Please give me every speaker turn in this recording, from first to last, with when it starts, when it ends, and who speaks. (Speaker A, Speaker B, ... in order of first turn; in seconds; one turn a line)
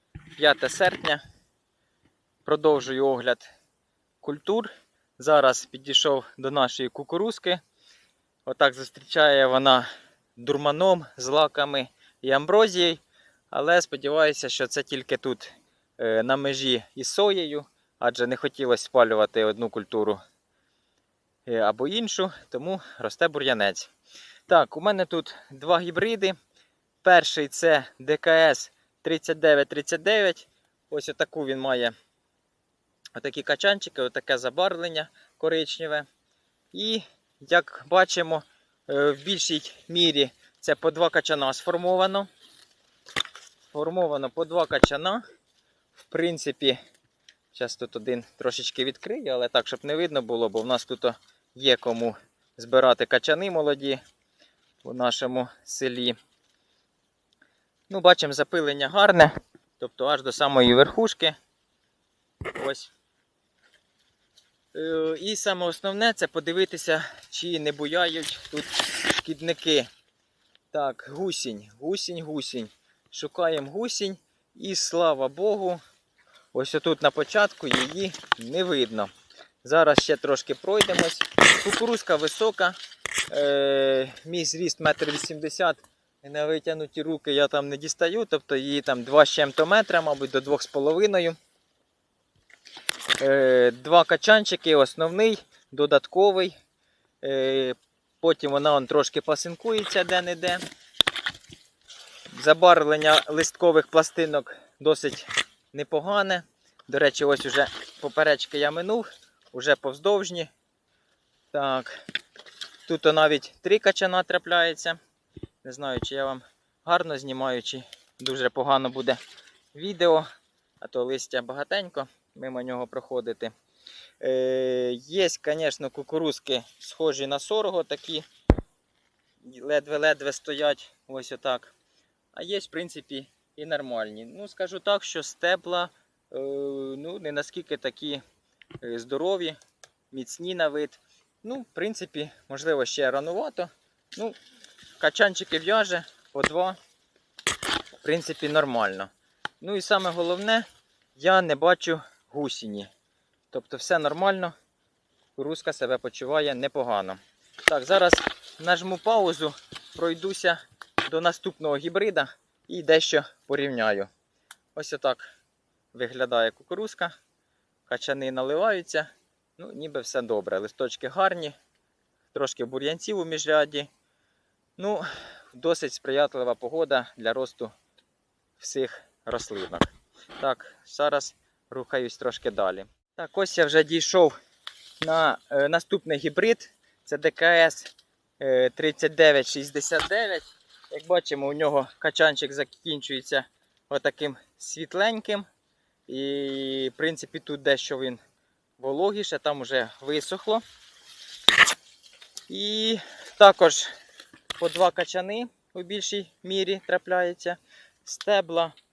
Speaker A: 0.4-1.2
Speaker A: 2.5-3.5
Speaker A: 4.2-7.6
Speaker A: 8.4-20.2
Speaker A: 21.4-23.9
Speaker A: 24.5-26.3
Speaker A: 27.0-31.9
Speaker A: 33.1-36.0
Speaker A: 36.7-42.3
Speaker A: 43.7-45.2
Speaker A: 46.0-46.8
Speaker A: 47.5-54.0
Speaker A: 54.8-56.1
Speaker A: 57.9-61.3
Speaker A: 62.5-62.9
Speaker A: 64.7-69.9
Speaker A: 70.7-75.8
Speaker A: 76.5-79.1
Speaker A: 79.6-82.8
Speaker A: 83.3-91.4
Speaker A: 93.2-96.5
Speaker A: 97.2-100.6
Speaker A: 102.3-110.5
Speaker A: 111.5-112.0
Speaker A: 112.8-115.0
Speaker A: 115.6-119.2
Speaker A: 119.7-120.2
Speaker A: 120.8-123.5
Speaker A: 124.2-128.2
Speaker A: 129.4-131.7
Speaker A: 132.3-138.2
Speaker A: 138.8-139.6
Speaker A: 140.1-144.3
Speaker A: 145.0-146.8
Speaker A: 148.0-149.1
Speaker A: 149.6-152.9
Speaker A: 153.5-154.5
Speaker A: 155.3-164.1
Speaker A: 164.7-165.3
Speaker A: 165.9-167.1
Speaker A: 167.9-171.5
Speaker A: 172.3-173.9
Speaker A: 174.8-177.7
Speaker A: 178.6-184.3
Speaker A: 185.0-195.4
Speaker A: 196.1-198.2
Speaker A: 198.8-200.6
Speaker A: 202.5-203.9
Speaker A: 204.6-208.7